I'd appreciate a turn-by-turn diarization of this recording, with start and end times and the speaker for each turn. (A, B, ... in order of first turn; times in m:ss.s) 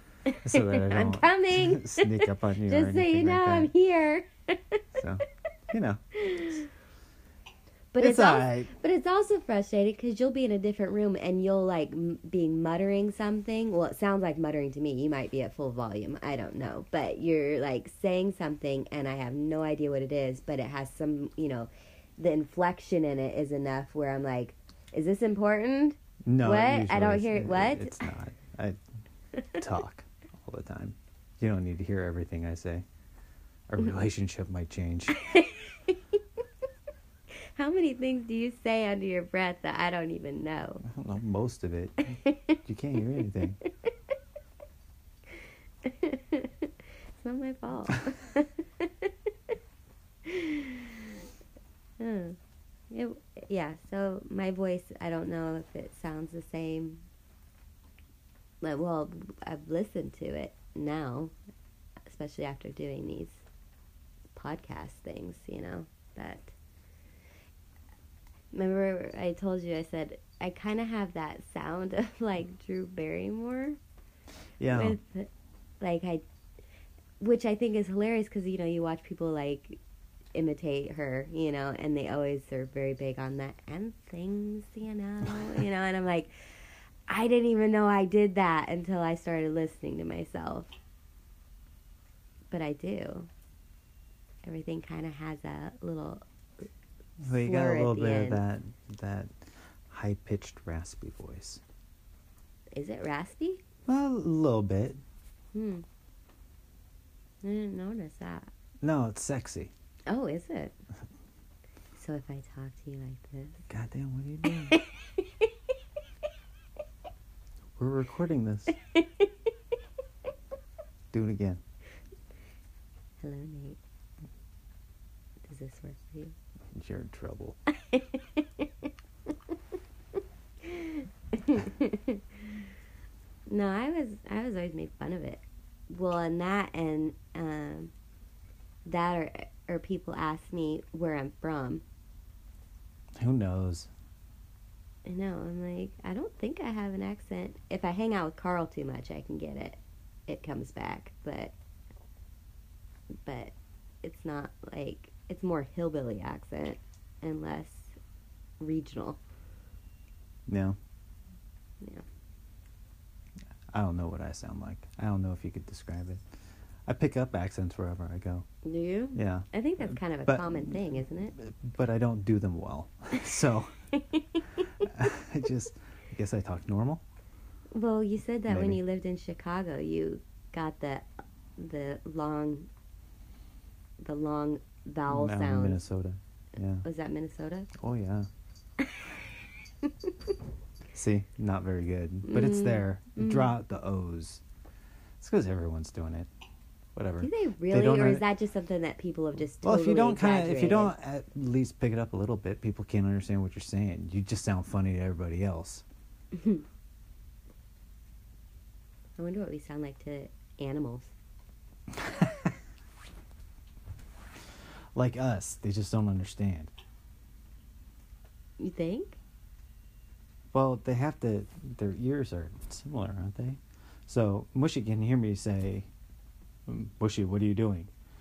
0:00.3-0:04.8 A
0:00.4-0:03.7 B
0:04.9-0:06.0 B
0:06.1-0:06.7 A
0:07.9-0:28.0 A
0:08.0-0:08.7 B
0:26.2-0:28.8 B
0:29.5-0:32.8 B
0:33.7-0:35.2 B
0:35.1-0:36.2 A
0:37.5-0:40.8 A
0:40.8-0:42.1 B
0:42.1-0:42.6 A
0:42.6-0:43.6 B
0:45.8-0:49.1 A
0:50.2-0:51.2 A
0:52.0-0:52.4 A
0:52.9-0:57.0 A
0:58.6-1:01.3 A
1:02.1-1:03.4 A
1:04.3-1:06.5 A
1:08.5-1:13.8 A
1:14.6-1:15.0 B
1:14.7-1:16.2 A
1:17.2-1:19.8 A
1:20.3-1:30.7 A
1:32.5-1:33.3 A
1:34.4-1:36.2 A
1:37.2-1:39.3 B
1:37.3-1:38.4 A
1:39.9-1:41.6 B
1:42.7-1:43.6 A
1:43.9-1:45.0 B
1:45.5-1:45.8 A
1:47.4-1:48.5 A
1:48.8-1:49.7 B
1:50.1-1:50.7 A
1:51.9-1:53.6 A
1:53.7-1:54.8 B
1:54.4-1:55.5 A
1:57.8-1:58.8 B
1:58.9-1:59.3 A
2:01.1-2:01.6 B
2:03.2-2:03.8 A
2:05.4-2:06.3 A
2:06.7-2:07.6 B
2:07.7-2:08.9 A
2:10.6-2:12.2 A
2:13.5-2:17.9 A
2:18.8-2:21.8 A
2:23.2-2:23.9 B
2:25.0-2:31.5 A
2:33.2-2:38.0 A
2:38.6-2:39.2 A
2:40.5-2:40.8 B
2:43.7-2:46.2 B
2:46.9-2:48.4 B
2:48.6-2:51.3 A
2:49.1-2:50.8 B
2:51.3-2:53.7 B
2:53.9-2:54.8 A
2:54.8-2:57.0 B
2:57.7-3:02.7 A
2:58.5-2:58.8 B
3:04.0-3:05.8 A
3:05.1-3:06.8 B
3:06.8-3:07.7 A
3:07.7-3:08.3 B
3:08.8-3:09.1 A
3:09.8-3:10.1 A
3:10.9-3:14.4 B
3:12.2-3:13.5 A
3:15.2-3:16.3 B
3:16.9-3:18.2 B
3:17.2-3:20.9 A
3:19.6-3:25.8 B
3:26.3-3:26.6 A
3:29.2-3:31.1 A
3:31.9-3:32.5 B
3:34.9-3:36.7 B
3:38.6-3:39.2 A
3:40.5-3:45.9 B
3:46.7-3:47.9 B